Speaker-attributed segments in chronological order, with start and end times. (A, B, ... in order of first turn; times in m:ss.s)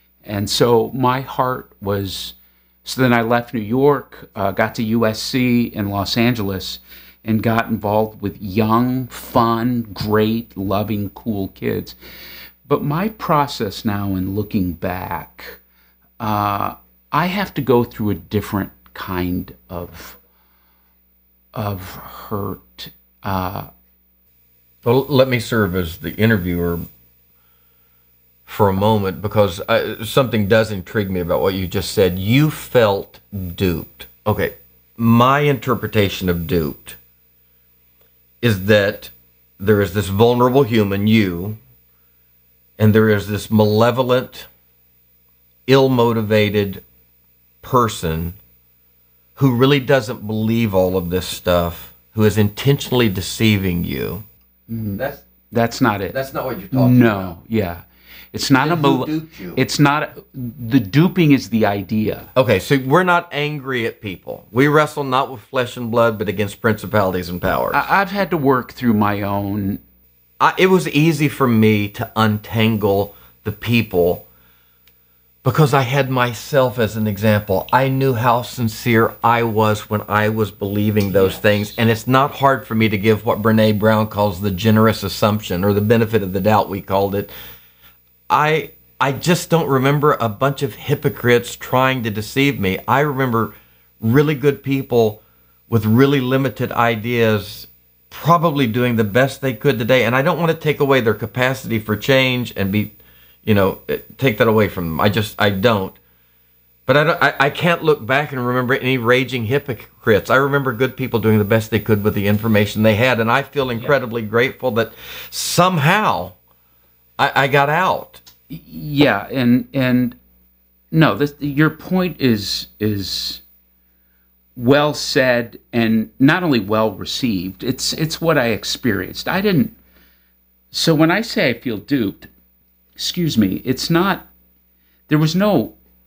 0:00.2-0:12.0 A
0:12.7-0:15.6 A
0:16.2-0:20.2 A
0:21.5-0:23.7 A
0:24.8-0:26.8 B
0:28.5-0:37.0 B
0:38.4-0:41.6 B
0:42.8-0:44.5 B
0:45.7-0:46.8 B
0:47.6-0:48.4 B
0:49.4-0:54.3 B
0:54.7-0:56.2 A
0:56.1-0:57.3 B
0:56.7-1:02.3 A
0:58.6-0:59.6 B
1:02.4-1:07.8 B
1:07.7-1:09.8 A
1:10.4-1:14.2 B
1:15.4-1:27.3 B
1:21.1-1:21.8 A
1:28.3-1:46.0 B
1:46.9-1:56.4 B
1:57.2-1:58.2 B
1:58.5-2:00.2 A
2:00.9-2:03.4 A
2:04.6-2:09.8 A
2:10.7-2:12.3 A
2:13.0-2:14.3 A
2:15.1-2:15.8 A